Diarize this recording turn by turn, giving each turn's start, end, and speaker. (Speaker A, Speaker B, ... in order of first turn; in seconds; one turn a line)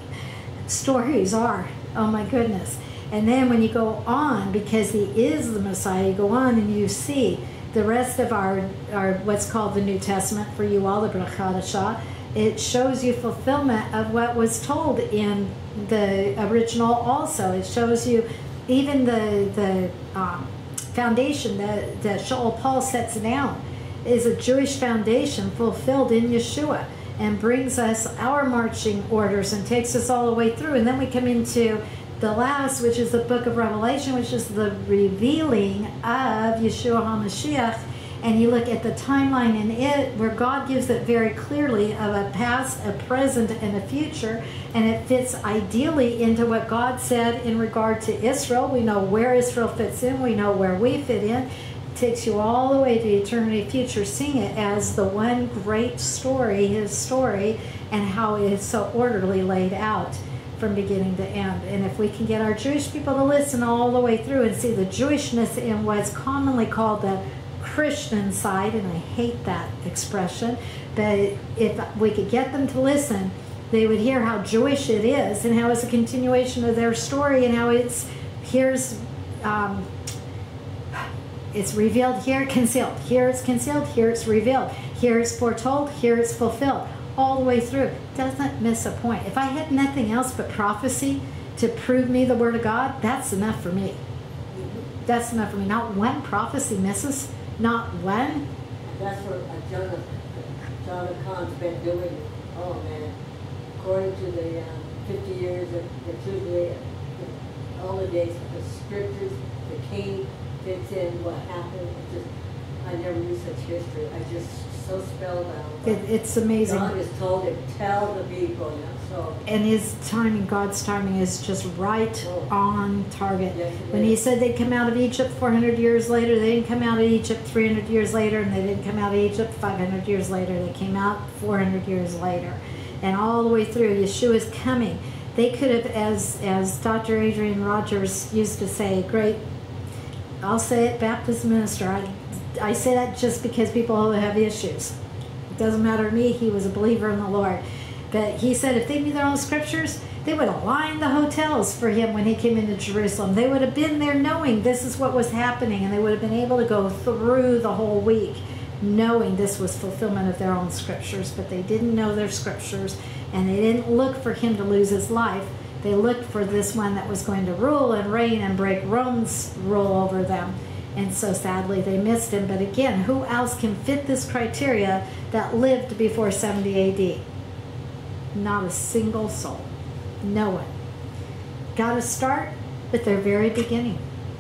Speaker A: 0.7-79.9
Speaker A: 80.9-94.0
Speaker B: 94.5-94.8
Speaker A: 95.1-98.4
Speaker B: 98.9-103.1
Speaker B: 103.8-112.3
Speaker B: 112.8-116.0
Speaker A: 115.8-116.9
Speaker B: 116.6-119.4
Speaker A: 119.5-139.4
Speaker B: 122.2-122.5
Speaker B: 123.5-124.2
Speaker A: 140.4-144.9
Speaker A: 145.5-177.2
Speaker A: 178.3-179.7
Speaker A: 180.2-180.7
Speaker A: 181.8-184.0